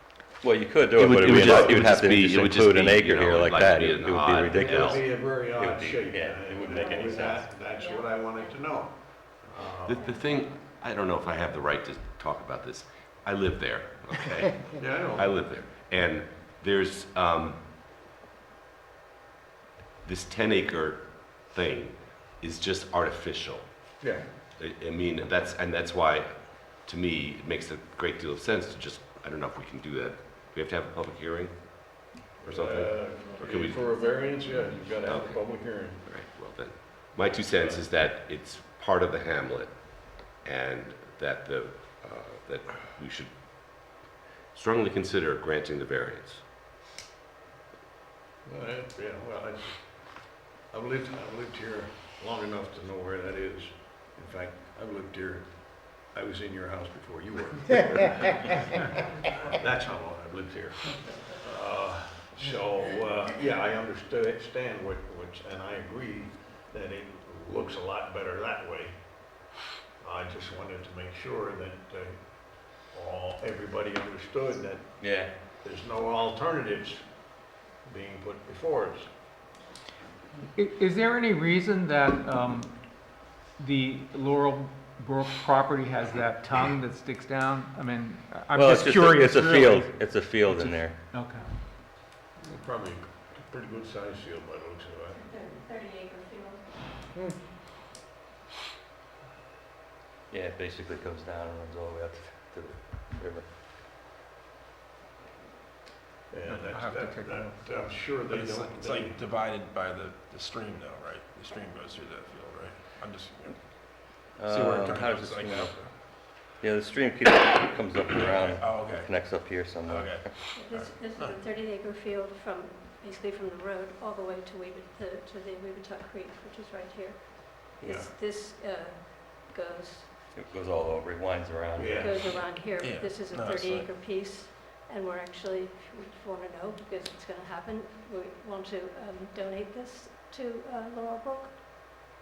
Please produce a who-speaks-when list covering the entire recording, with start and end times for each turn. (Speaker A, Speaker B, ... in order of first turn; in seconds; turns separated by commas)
Speaker A: 0.4-7.5, Speaker B: 0.9-5.0, Speaker C: 1.5-1.9, Speaker C: 4.5-10.0, Speaker D: 6.5-9.0, Speaker B: 9.8-17.6, Speaker D: 9.9-10.6, Speaker C: 14.8-15.4, Speaker B: 20.0-33.9, Speaker C: 24.0-24.4, Speaker C: 32.4-36.0, Speaker D: 33.2-35.1, Speaker B: 35.0-35.4, Speaker B: 36.0-46.4, Speaker C: 37.5-37.8, Speaker C: 48.4-69.5, Speaker C: 70.0-79.1, Speaker A: 75.0-75.4, Speaker E: 80.5-91.5, Speaker A: 88.5-91.0, Speaker C: 92.4-95.5, Speaker D: 95.2-96.7, Speaker A: 100.3-103.5, Speaker C: 106.3-109.2, Speaker E: 106.5-107.6, Speaker F: 108.3-116.0, Speaker A: 114.3-115.8, Speaker A: 116.5-120.3, Speaker F: 118.1-121.4, Speaker D: 120.5-130.1, Speaker C: 127.8-128.1, Speaker A: 130.3-132.1, Speaker C: 131.7-132.7, Speaker D: 131.9-142.0, Speaker F: 132.6-133.9